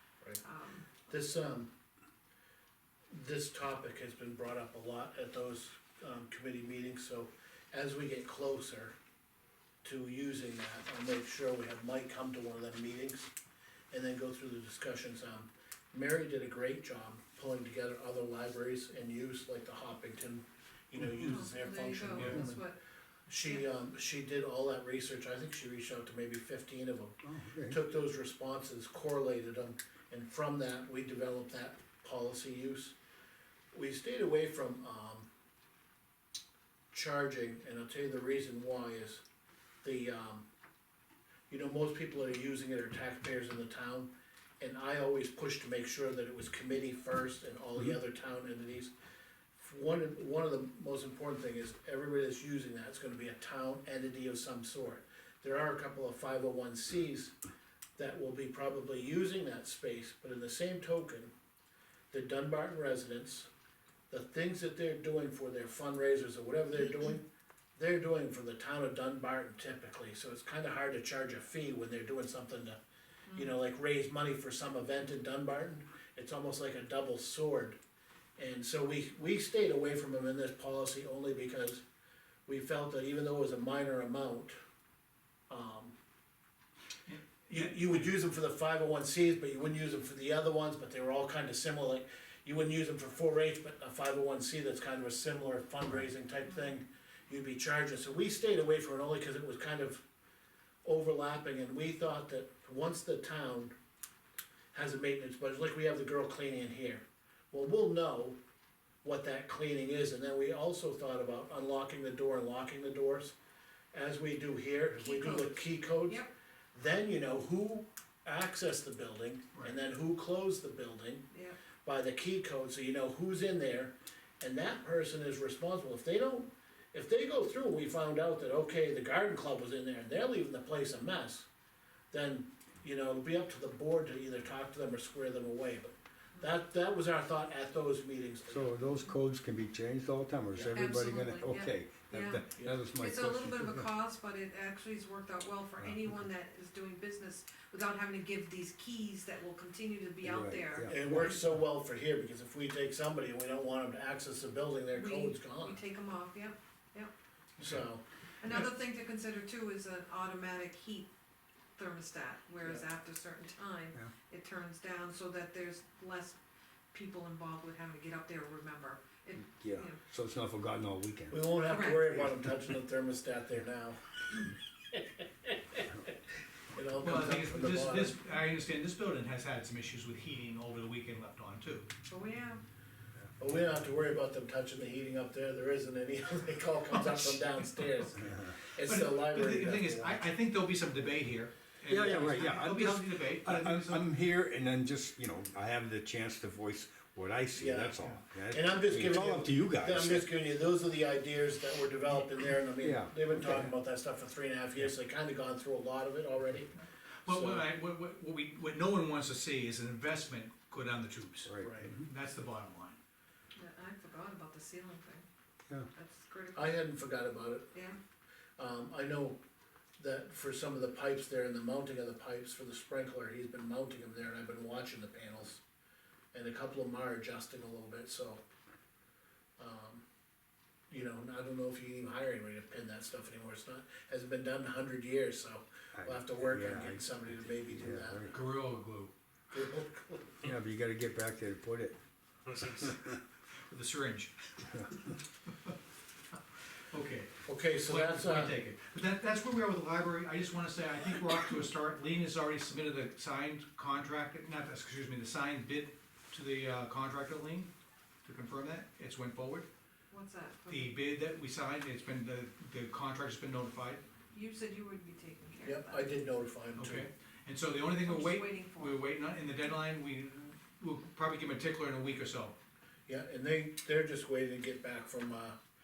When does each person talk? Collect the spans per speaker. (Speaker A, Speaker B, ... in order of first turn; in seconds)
Speaker A: 0.4-0.9, 21.2-22.8, 23.4-23.7, 115.0-116.3, 121.3-121.6, 140.7-151.1, 154.9-157.1, 158.4-161.1, 161.8-166.4, 166.9-170.0, 171.7-172.0, 182.1-182.6, 213.6-215.3, 215.9-216.8, 260.1-260.9, 264.3-266.1, 268.0-269.0
Speaker B: 1.1-1.7, 3.1-8.9, 9.8-13.3, 13.9-22.6, 23.3-33.0, 33.7-35.3, 36.9-39.2, 39.8-40.5, 41.5-48.9, 49.6-57.4, 58.0-61.3, 62.1-63.5, 64.1-72.8, 73.3-77.8, 78.4-81.8, 82.5-84.6, 85.5-86.0, 87.5-100.0, 100.8-103.7, 104.7-108.4, 109.0-113.3, 113.9-121.3, 121.8-131.5, 132.1-138.8, 140.5-140.8, 150.9-155.8, 157.6-158.0, 171.3-176.0, 176.7-178.1, 183.4-190.2, 197.6-198.0, 198.5-206.7, 207.3-207.7, 211.6-212.0, 216.5-217.7, 218.6-219.4, 220.0-225.6, 226.3-228.4, 229.6-230.0, 230.9-238.2, 239.5-240.4, 247.5-248.6, 265.6-267.1, 273.1-275.6
Speaker C: 27.2-27.8, 138.5-143.9, 150.2-151.5, 169.6-171.4, 191.9-200.3, 202.8-203.7, 211.5-212.0, 235.9-238.4, 240.4-242.0
Speaker D: 87.1-88.0, 157.6-157.9, 177.0-181.9, 186.9-187.9, 188.8-194.1, 207.2-213.0, 238.3-239.1, 242.5-242.9, 243.7-244.9, 246.9-257.7, 258.2-259.7, 260.7-264.0, 266.8-272.6